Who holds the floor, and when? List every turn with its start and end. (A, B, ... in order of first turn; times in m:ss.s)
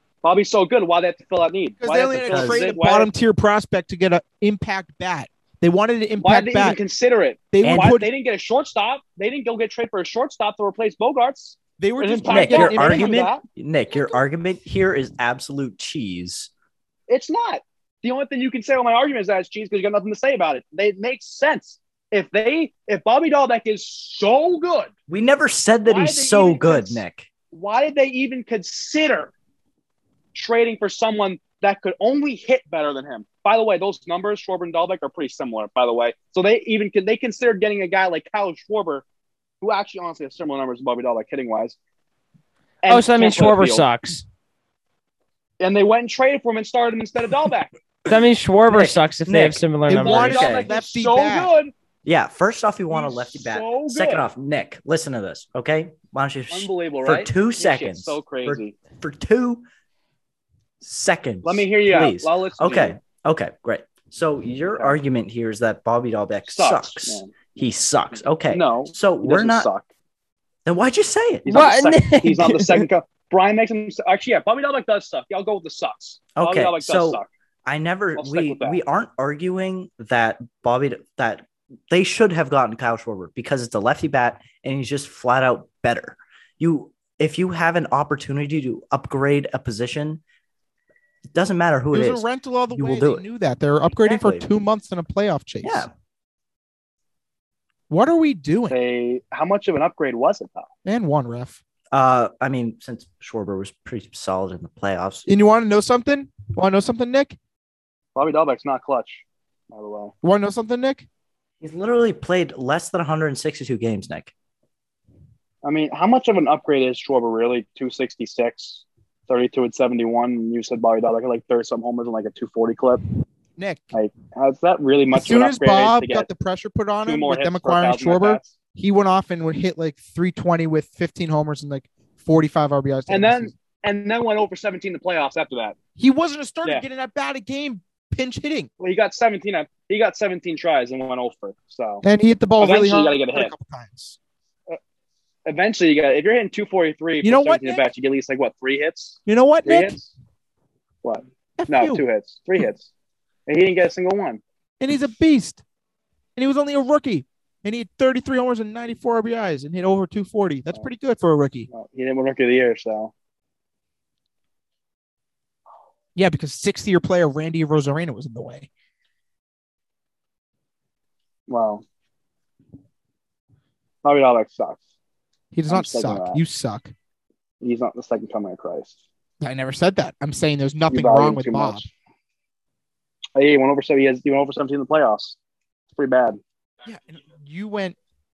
0:00.2-0:03.1 A
0:01.8-0:06.8 B
0:02.3-0:02.6 C
0:06.2-0:13.4 A
0:07.5-0:08.1 B
0:07.6-0:07.9 C
0:11.8-0:13.3 B
0:12.3-0:16.5 C
0:17.1-0:24.9 A
0:25.1-0:27.3 C
0:25.8-0:29.3 A
0:30.3-0:39.0 A
0:39.6-0:41.8 A
0:42.8-0:43.9 A
0:42.9-0:44.2 D
0:45.6-0:47.7 A
0:48.1-0:50.4 D
0:48.7-0:50.7 C
0:49.9-0:51.5 B
0:49.9-0:51.7 A
0:52.0-0:59.6 C
0:52.9-0:54.3 A
0:56.5-0:58.8 A
1:00.8-1:09.7 C
1:01.4-1:03.0 A
1:06.5-1:07.6 A
1:08.5-1:09.8 A
1:10.7-1:11.5 C
1:11.4-1:17.3 A
1:11.5-1:12.9 D
1:16.4-1:30.2 C
1:18.2-1:18.8 A
1:31.3-1:33.2 C
1:31.9-1:35.9 B
1:34.0-1:34.5 C
1:35.6-1:35.9 C
1:37.9-1:38.8 B
1:38.7-1:40.7 A
1:40.8-1:41.6 B
1:41.9-1:45.3 C
1:45.3-1:47.4 B
1:48.2-1:50.1 A
1:50.2-1:51.1 B
1:51.6-1:54.3 C
1:55.6-2:03.0 A
2:03.6-2:03.9 B
2:03.9-2:06.3 A
2:05.1-2:13.5 B
2:07.0-2:08.5 A
2:13.1-2:15.8 A
2:16.0-2:18.7 B
2:18.8-2:22.0 A
2:22.0-2:24.2 B
2:22.6-2:23.5 A
2:25.5-2:30.1 A
2:27.2-2:27.9 B
2:29.3-2:30.0 B
2:31.0-2:32.9 A
2:31.6-2:32.0 B
2:33.5-2:34.4 A
2:34.8-2:35.6 B
2:36.4-2:41.7 B
2:41.7-2:43.1 A
2:46.2-2:48.7 B
2:51.5-2:51.8 A
2:54.0-2:54.8 A
2:55.5-2:56.9 B
2:55.7-2:56.4 A
2:57.6-2:59.0 A
2:59.4-3:01.9 B
3:00.9-3:01.9 A
3:03.4-3:05.4 A
3:06.0-3:06.4 A
3:06.8-3:08.0 B